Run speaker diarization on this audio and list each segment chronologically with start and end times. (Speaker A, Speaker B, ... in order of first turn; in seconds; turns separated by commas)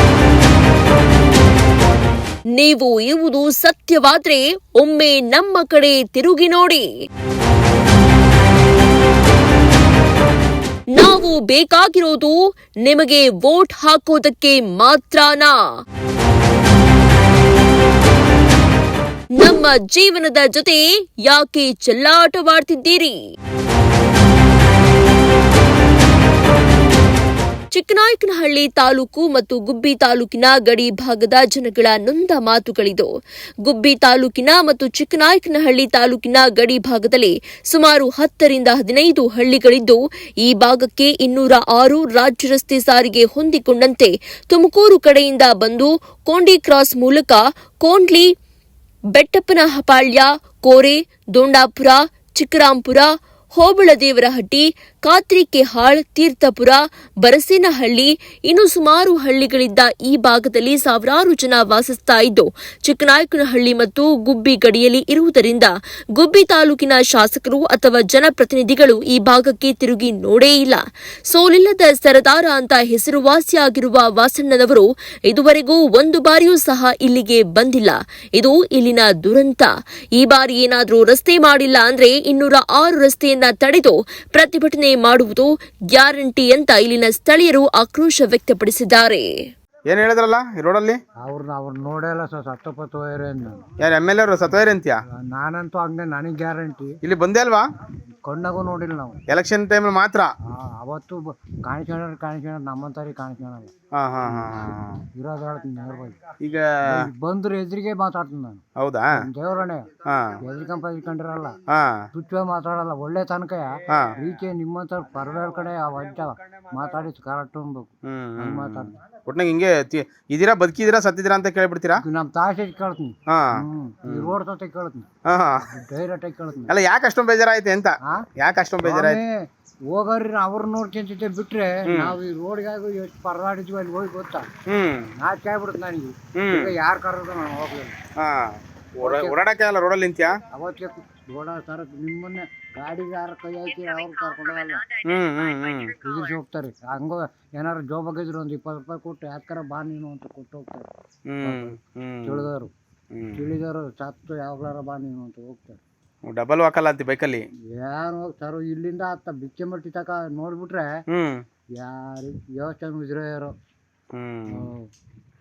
Speaker A: 2.6-6.9, Speaker A: 10.9-15.6, Speaker A: 19.4-23.2, Speaker A: 27.7-33.1, Speaker A: 33.7-48.3, Speaker A: 49.1-89.3, Speaker B: 89.9-91.0, Speaker C: 91.2-93.6, Speaker B: 93.8-95.0, Speaker C: 95.1-97.0, Speaker B: 97.0-97.7, Speaker C: 98.2-99.2, Speaker B: 99.3-100.3, Speaker C: 100.5-103.7, Speaker B: 103.9-105.0, Speaker C: 105.2-106.2, Speaker B: 106.4-107.1, Speaker C: 106.9-108.6, Speaker B: 108.8-109.2, Speaker C: 109.2-109.9, Speaker B: 110.1-110.4, Speaker C: 110.4-111.6, Speaker B: 111.7-112.0, Speaker C: 112.1-119.0, Speaker B: 118.1-122.0, Speaker C: 122.0-125.1, Speaker B: 123.3-124.4, Speaker B: 125.3-125.6, Speaker C: 125.7-126.7, Speaker B: 126.7-129.2, Speaker C: 128.8-129.3, Speaker C: 129.9-134.5, Speaker B: 131.9-132.2, Speaker B: 134.7-135.1, Speaker C: 135.2-138.0, Speaker B: 136.4-136.7, Speaker B: 138.2-140.4, Speaker C: 139.0-139.4, Speaker C: 140.5-144.8, Speaker B: 145.0-146.0, Speaker C: 146.0-150.9, Speaker B: 151.3-152.5, Speaker C: 151.4-152.7, Speaker B: 153.1-153.5, Speaker C: 153.4-155.8, Speaker B: 156.3-157.4, Speaker C: 157.8-160.9, Speaker B: 161.1-161.4, Speaker C: 161.8-163.5, Speaker B: 164.1-164.7, Speaker C: 164.5-164.8